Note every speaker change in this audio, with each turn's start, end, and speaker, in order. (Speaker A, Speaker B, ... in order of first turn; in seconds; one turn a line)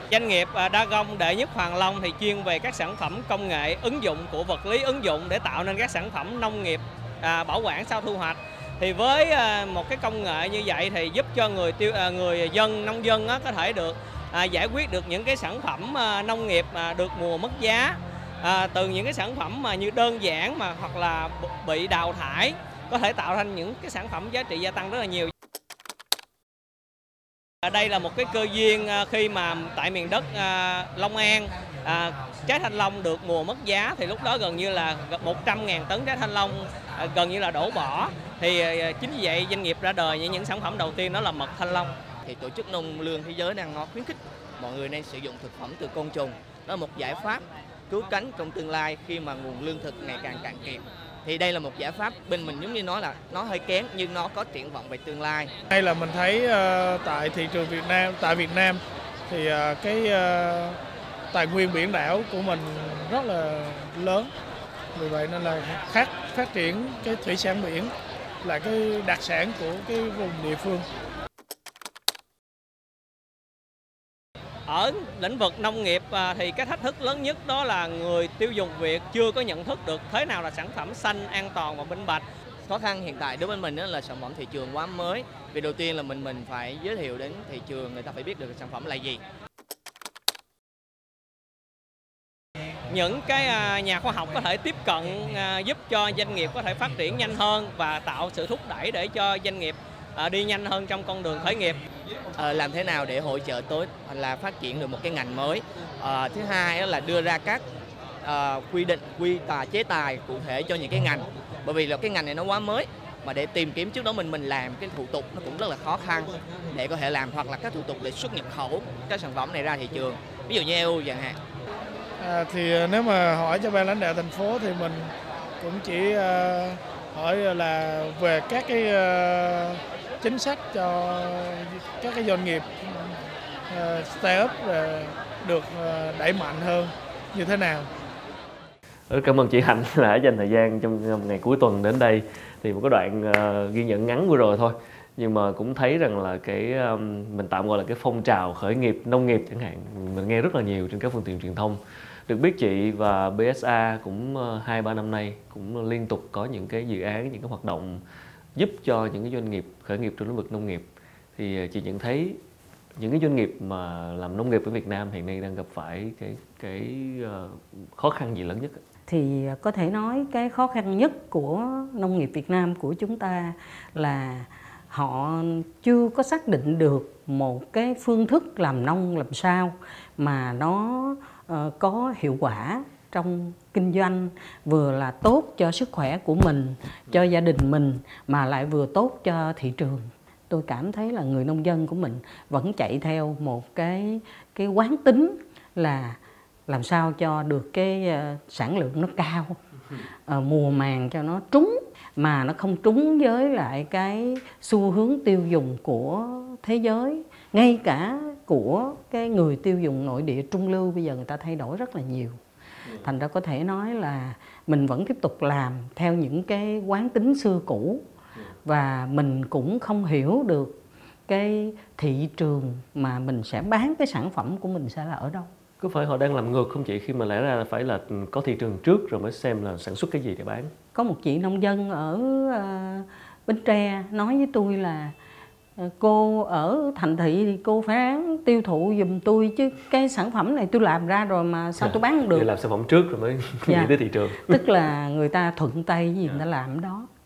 Speaker A: 0.1-25.3
Speaker A: 27.6-41.9
Speaker B: 42.2-55.5
Speaker C: 55.7-60.8
Speaker C: 61.3-64.3
Speaker C: 65.0-70.8
Speaker A: 74.7-82.2
Speaker B: 82.6-89.2
Speaker A: 92.9-101.8
Speaker B: 102.3-107.6
Speaker B: 108.2-121.4
Speaker C: 122.2-133.1
Speaker C: 133.7-137.9
Speaker D: 139.1-158.0
Speaker D: 158.5-162.4
Speaker D: 163.0-168.8
Speaker E: 169.1-199.5
Speaker E: 200.2-212.4
Speaker E: 212.9-218.0
Speaker E: 218.6-225.5
Speaker D: 225.8-230.7
Speaker E: 230.9-235.1
Speaker E: 235.8-242.5
Speaker D: 241.8-244.6
Speaker E: 243.7-243.9
Speaker E: 244.5-247.1